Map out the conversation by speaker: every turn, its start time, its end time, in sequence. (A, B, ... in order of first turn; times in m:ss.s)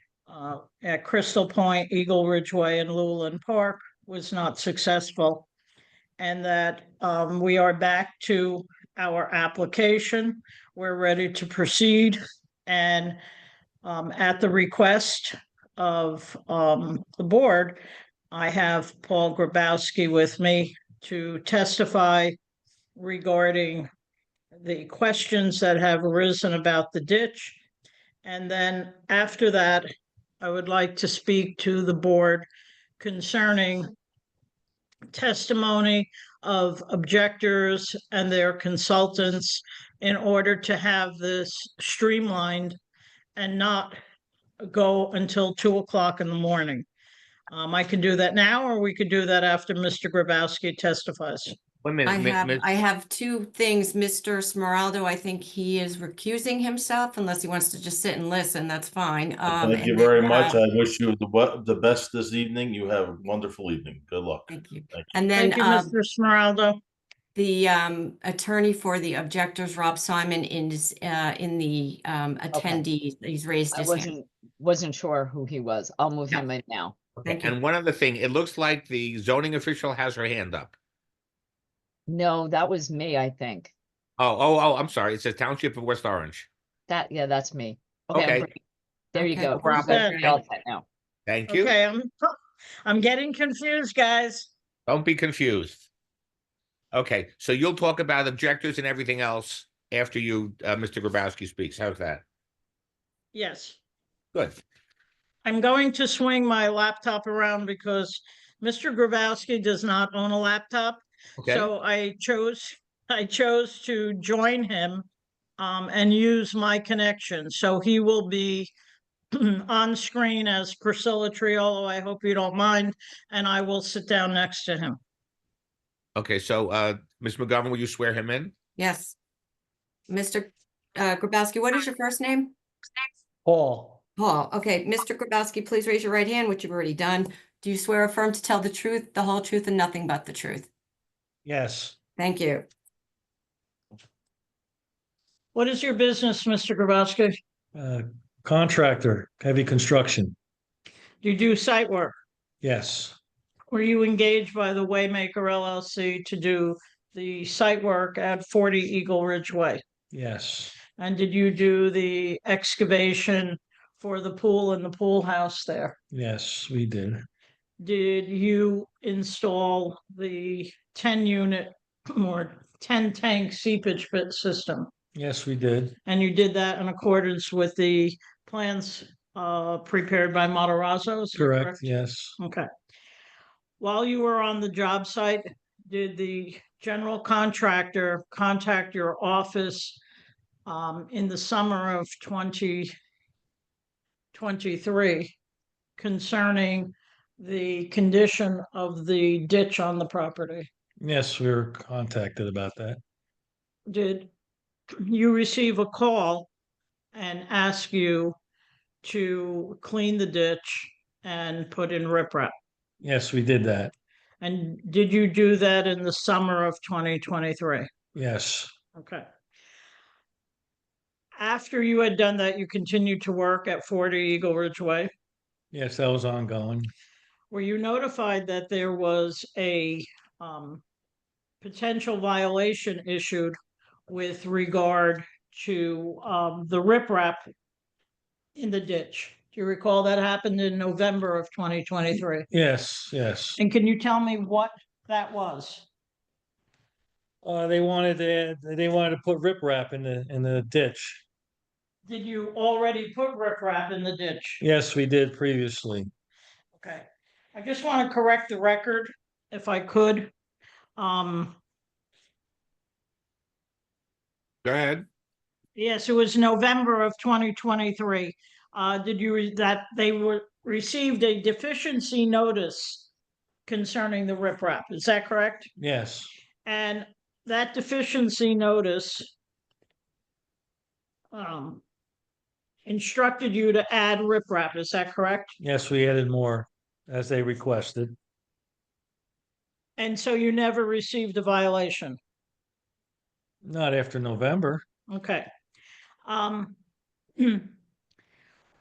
0:00.3-0:05.5 A
0:06.2-0:13.2 A
0:13.8-0:22.4 A
0:23.0-0:23.9 A
0:24.6-0:27.6 A
0:28.2-0:29.9 A
0:30.4-0:32.5 A
0:33.0-0:33.9 A
0:35.1-0:42.8 A
0:43.4-0:44.0 A
0:44.6-0:46.9 A
0:47.5-0:51.6 A
0:51.8-0:52.7 B
0:52.1-1:00.6 C
0:59.5-1:05.1 D
1:04.5-1:05.9 C
1:05.3-1:06.8 A
1:07.4-1:14.2 C
1:12.5-1:12.8 E
1:13.7-1:17.0 E
1:17.2-1:20.7 B
1:17.2-1:17.6 C
1:22.1-1:23.7 E
1:24.2-1:26.5 B
1:26.9-1:28.6 E
1:28.1-1:28.5 B
1:29.1-1:30.9 E
1:29.2-1:30.4 C
1:29.6-1:29.9 B
1:29.6-1:30.4 A
1:31.3-1:31.7 B
1:31.5-1:34.5 A
1:34.9-1:35.8 B
1:36.9-1:42.2 B
1:43.3-1:43.8 A
1:44.3-1:44.6 B
1:45.4-1:55.0 A
1:51.4-1:51.7 B
1:55.6-1:58.7 A
1:59.3-2:05.0 A
2:06.2-2:08.6 B
2:08.8-2:09.2 C
2:10.1-2:12.5 C
2:13.4-2:14.0 F
2:14.2-2:20.7 C
2:21.4-2:22.0 F
2:22.2-2:22.7 C
2:25.5-2:27.4 A
2:27.8-2:30.4 F
2:31.2-2:32.2 A
2:32.6-2:33.2 F
2:33.7-2:39.8 A
2:40.1-2:40.7 F
2:41.0-2:46.0 A
2:46.1-2:47.2 F
2:47.8-2:54.9 A
2:55.2-2:56.0 F
2:56.1-3:01.8 A
3:01.4-3:02.4 F
3:02.4-3:02.7 A
3:03.8-3:10.0 A
3:10.7-3:12.9 A
3:14.3-3:15.4 A
3:16.0-3:20.7 A
3:21.0-3:23.0 F
3:23.9-3:24.3 A
3:25.0-3:26.5 A
3:27.1-3:28.4 A
3:29.0-3:32.5 A
3:33.0-3:33.9 F
3:34.4-3:37.9 A
3:38.2-3:38.7 F
3:39.0-3:39.3 A
3:41.4-3:45.1 A
3:45.7-3:46.9 F
3:47.5-3:50.8 A
3:51.6-3:53.6 A
3:54.1-3:57.5 A
3:58.6-4:02.5 A
4:02.5-4:03.6 F
4:03.6-4:05.9 A
4:07.4-4:11.2 F
4:12.1-4:14.6 A
4:14.6-4:16.1 F
4:16.8-4:20.3 A
4:21.0-4:21.6 A
4:24.6-4:25.1 B
4:25.8-4:33.1 A
4:33.7-4:35.7 A
4:35.8-4:36.3 F
4:36.7-4:39.3 A
4:41.3-4:41.8 A
4:42.9-4:45.5 A
4:45.6-4:48.2 F
4:50.0-4:52.2 A
4:53.6-4:54.8 F
4:55.1-4:55.5 A
4:56.3-4:56.8 A
4:57.4-4:57.7 A